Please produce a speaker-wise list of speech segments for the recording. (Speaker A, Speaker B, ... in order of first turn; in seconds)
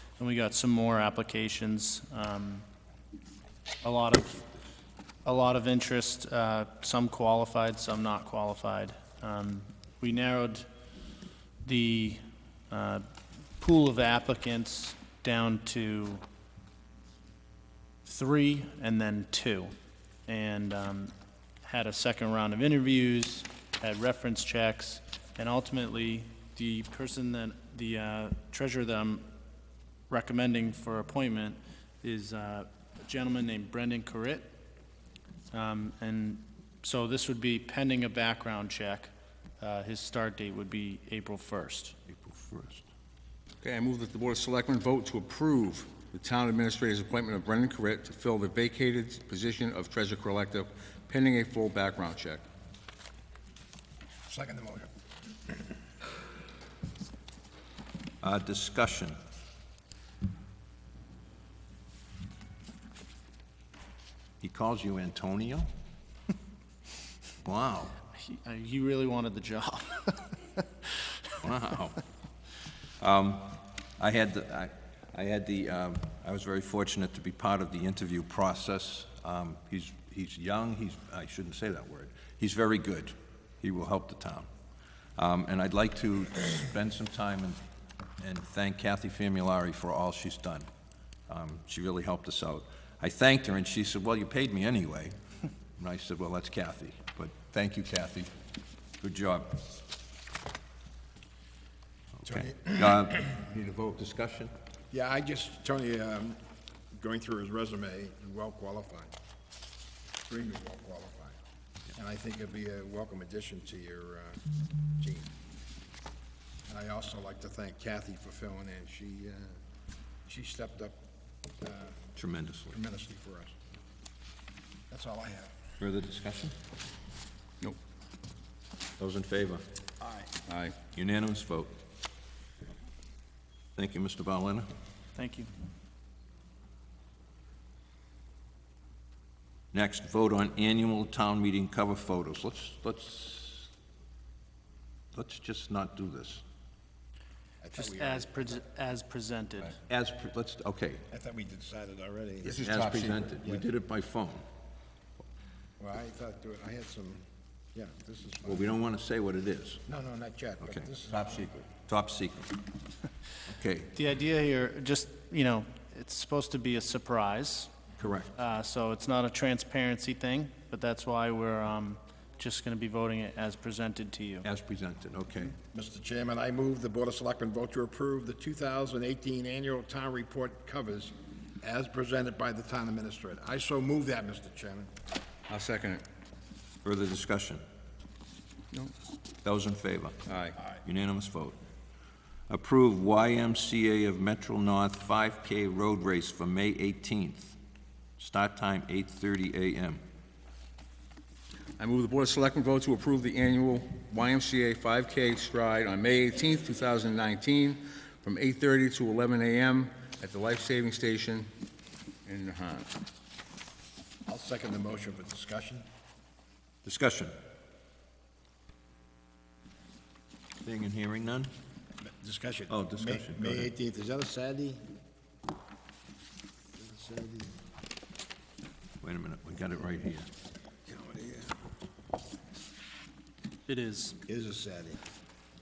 Speaker A: 0.2-2.6, 3.8-4.5, 5.2-10.7, 11.6-13.1, 13.6-16.2, 18.0-19.7, 20.2-29.3, 30.1-34.5, 35.5-42.0, 68.2-70.6, 135.2-135.5, 147.7-149.8, 163.9-167.7, 168.3-174.5, 233.7-234.2
Speaker B: 42.1-42.9, 58.2-59.2, 64.4-65.7, 67.4-68.0, 71.4-72.0, 73.0-84.5, 85.2-87.6, 88.2-90.7, 91.3-95.2, 95.8-98.3, 99.0-99.8, 102.2-104.5, 122.2-122.8, 125.8-126.5, 129.0-129.7, 130.9-131.8, 133.8-134.7, 139.7-143.7, 145.1-146.4, 149.9-151.1, 152.5-154.5, 158.4-159.8, 160.6-160.9, 161.9-162.6, 163.5-163.9, 168.0-168.3, 174.4-175.6, 186.8-187.6, 189.4-190.2, 190.8-191.6, 192.5-197.6, 198.2-200.0, 216.8-217.4, 220.6-221.5, 222.7-223.7, 229.0-230.3
Speaker C: 43.6-52.4, 130.5-130.8, 152.4-153.3, 161.1-161.6, 185.5-186.0, 190.3-190.6, 201.8-211.5, 212.2-212.9
Speaker D: 54.3-54.9, 102.3-103.2, 104.9-106.4, 106.9-109.1, 110.2-111.4, 111.9-114.4, 115.0-115.3, 116.7-119.6, 120.3-121.0, 121.6-122.1, 122.7-123.5, 124.9-125.5, 130.0-130.3, 147.6-148.6, 151.1-152.6, 155.8-158.7, 159.9-161.7, 175.7-184.9, 214.3-215.9, 222.1-224.8, 226.8-227.6, 230.9-231.6, 234.3-235.0